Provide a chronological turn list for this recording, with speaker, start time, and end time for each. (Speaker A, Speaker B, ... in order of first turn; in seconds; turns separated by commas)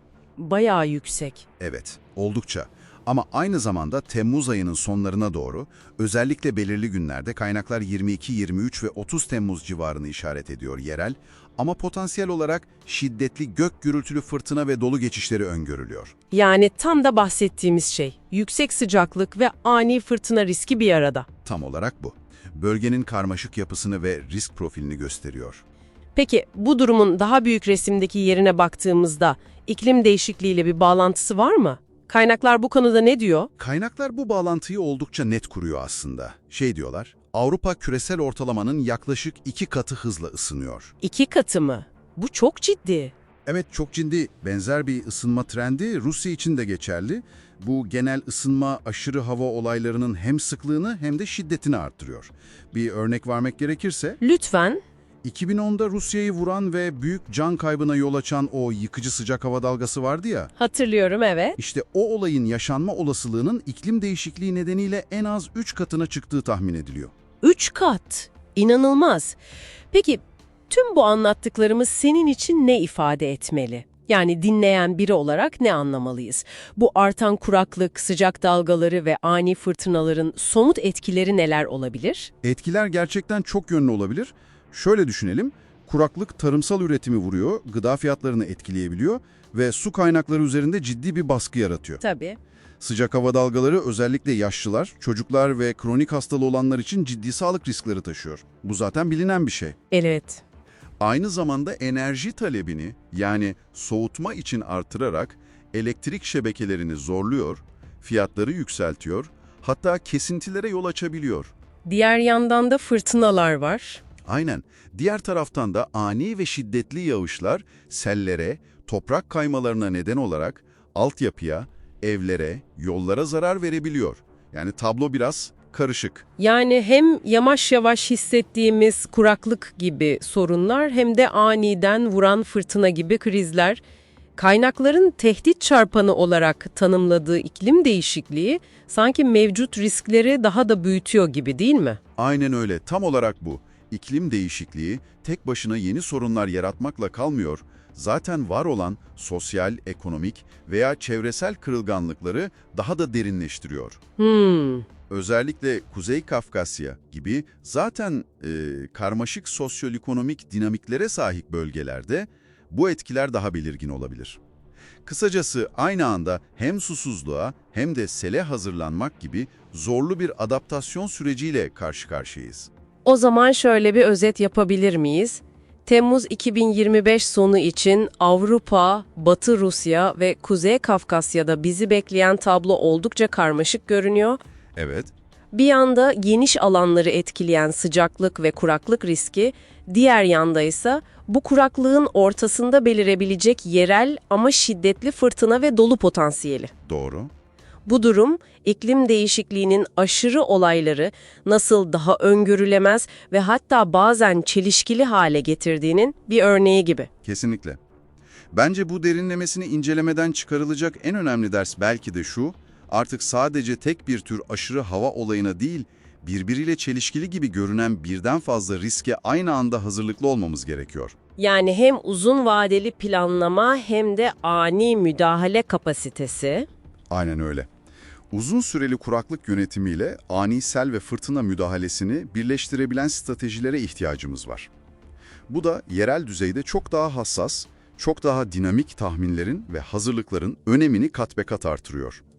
Speaker A: 0.4-1.4, Speaker B: 1.6-16.1, Speaker A: 16.3-21.3, Speaker B: 21.4-25.6, Speaker A: 26.1-33.5, Speaker B: 33.6-40.9, Speaker A: 41.0-43.1, Speaker B: 43.5-54.2, Speaker A: 54.2-54.8, Speaker B: 55.2-60.5, Speaker A: 60.6-61.6, Speaker B: 61.6-67.1, Speaker A: 67.4-69.4, Speaker A: 69.9-82.3, Speaker B: 82.4-92.0, Speaker A: 92.0-92.4, Speaker B: 92.8-99.8, Speaker A: 99.9-100.4, Speaker B: 101.0-111.5, Speaker A: 111.9-114.0, Speaker B: 114.2-126.2, Speaker A: 126.4-133.8, Speaker A: 134.4-142.0, Speaker B: 142.2-154.0, Speaker A: 154.2-154.9, Speaker B: 155.1-164.4, Speaker B: 165.1-172.7, Speaker A: 173.1-184.4, Speaker B: 184.8-185.1, Speaker A: 185.5-196.7, Speaker B: 196.9-197.3, Speaker A: 197.9-207.1, Speaker B: 207.2-207.8, Speaker B: 208.5-221.2, Speaker A: 221.4-226.7, Speaker B: 227.1-227.7, Speaker B: 228.3-234.7, Speaker B: 235.5-242.2